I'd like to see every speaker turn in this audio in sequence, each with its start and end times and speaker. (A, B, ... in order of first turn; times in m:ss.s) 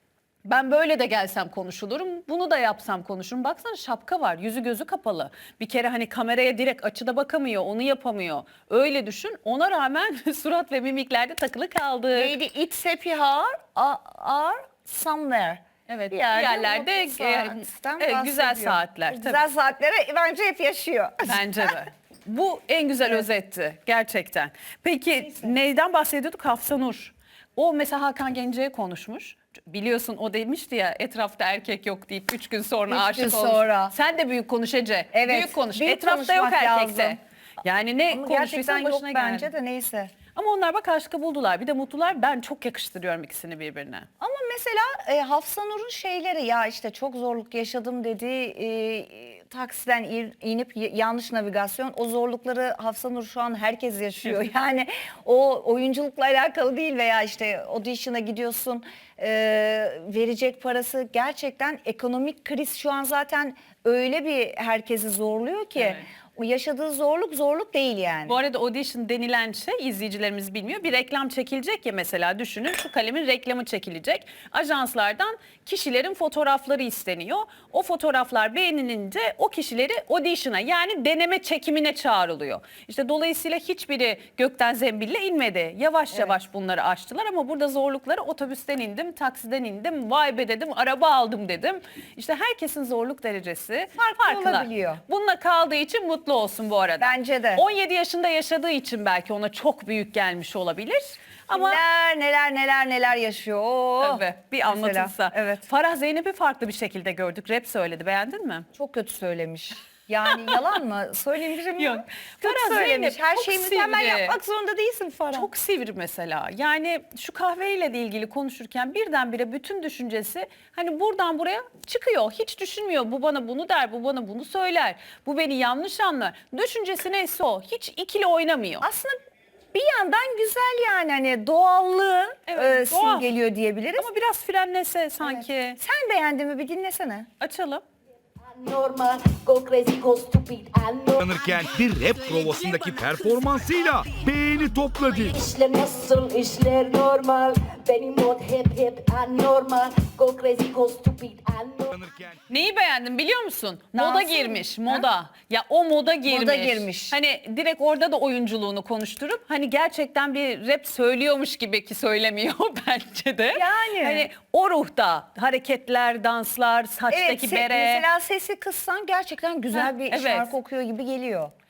0:00.4-0:12.4 A
0:12.1-0:21.8 B
0:15.9-0:19.4 A
0:21.2-0:39.5 A
0:25.2-0:25.5 B
0:32.9-0:33.9 B
0:35.1-0:37.2 B
0:38.1-0:40.1 B
0:40.4-0:44.1 A
0:44.2-1:08.4 B
1:05.8-1:06.1 A
1:08.3-1:41.8 A
1:34.0-1:35.0 B
1:37.0-1:37.6 B
1:41.5-1:45.7 B
1:44.0-1:48.7 A
1:48.8-1:55.5 B
1:50.3-1:50.6 A
1:51.8-1:54.4 A
1:55.3-2:08.9 A
2:08.8-2:09.2 B
2:09.7-2:14.1 B
2:12.5-2:13.3 A
2:14.0-2:15.8 A
2:15.2-2:17.3 B
2:17.4-2:17.8 A
2:18.4-2:23.9 C
2:21.2-2:25.3 D
2:25.2-2:32.0 C
2:31.9-2:32.4 D
2:32.5-2:48.0 A
2:34.0-2:35.1 B
2:36.3-2:37.2 B
2:43.5-2:44.3 B
2:47.1-2:51.5 B
2:49.7-2:50.5 A